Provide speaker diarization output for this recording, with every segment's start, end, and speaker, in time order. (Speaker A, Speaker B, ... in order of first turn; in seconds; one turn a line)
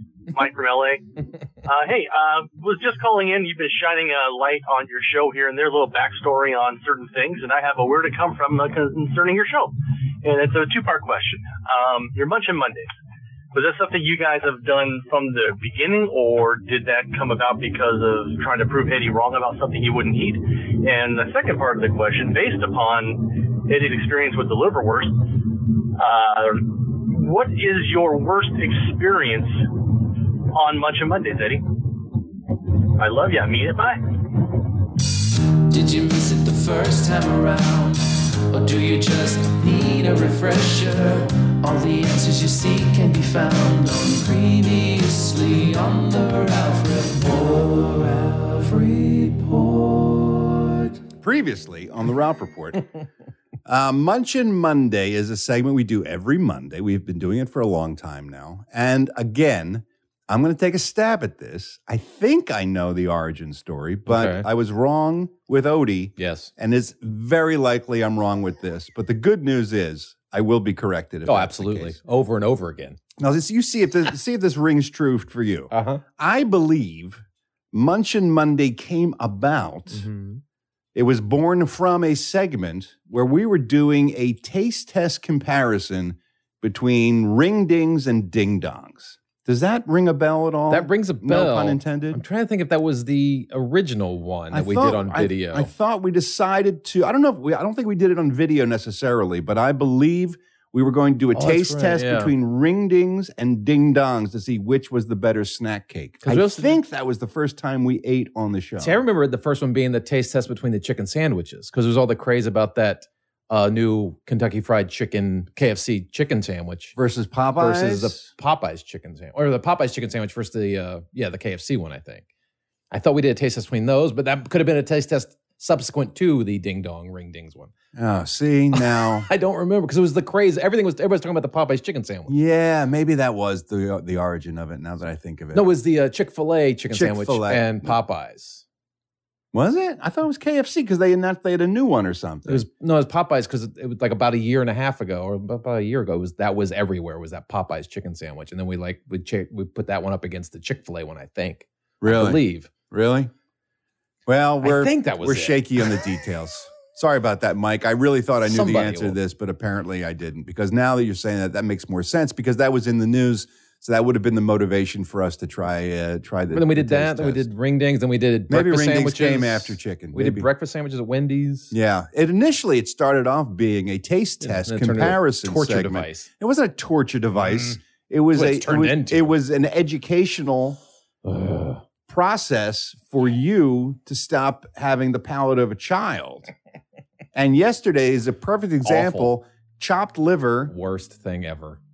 Speaker A: 0.3-1.0
Speaker A: 1.6-12.9
Speaker A: 13.5-25.1
Speaker A: 26.0-29.6
Speaker A: 30.5-31.6
Speaker A: 33.0-34.5
Speaker B: 35.7-38.0
Speaker B: 38.5-50.6
Speaker C: 51.2-52.9
Speaker C: 53.7-72.0
Speaker D: 64.1-64.5
Speaker D: 66.2-66.5
Speaker D: 71.3-73.0
Speaker C: 73.2-80.0
Speaker D: 75.7-76.0
Speaker D: 79.9-80.4
Speaker C: 81.0-92.2
Speaker D: 90.7-95.7
Speaker C: 94.5-109.0
Speaker D: 101.3-102.3
Speaker D: 106.2-106.8
Speaker D: 108.8-117.0
Speaker C: 117.0-118.3
Speaker D: 117.6-122.2
Speaker D: 122.9-127.7
Speaker C: 128.0-129.3
Speaker D: 128.8-132.3
Speaker C: 132.3-135.7
Speaker D: 135.5-138.6
Speaker C: 136.9-138.0
Speaker C: 139.5-142.6
Speaker D: 142.5-152.7
Speaker C: 152.0-153.3
Speaker C: 154.3-167.5
Speaker D: 154.6-155.9
Speaker D: 158.5-159.2
Speaker D: 166.5-171.7
Speaker C: 168.5-170.5
Speaker C: 171.7-180.8
Speaker D: 174.4-176.3
Speaker D: 177.4-177.8
Speaker D: 178.3-179.3
Speaker D: 181.2-181.8
Speaker C: 182.1-186.5
Speaker C: 187.3-190.7
Speaker D: 188.8-189.3
Speaker D: 190.7-191.8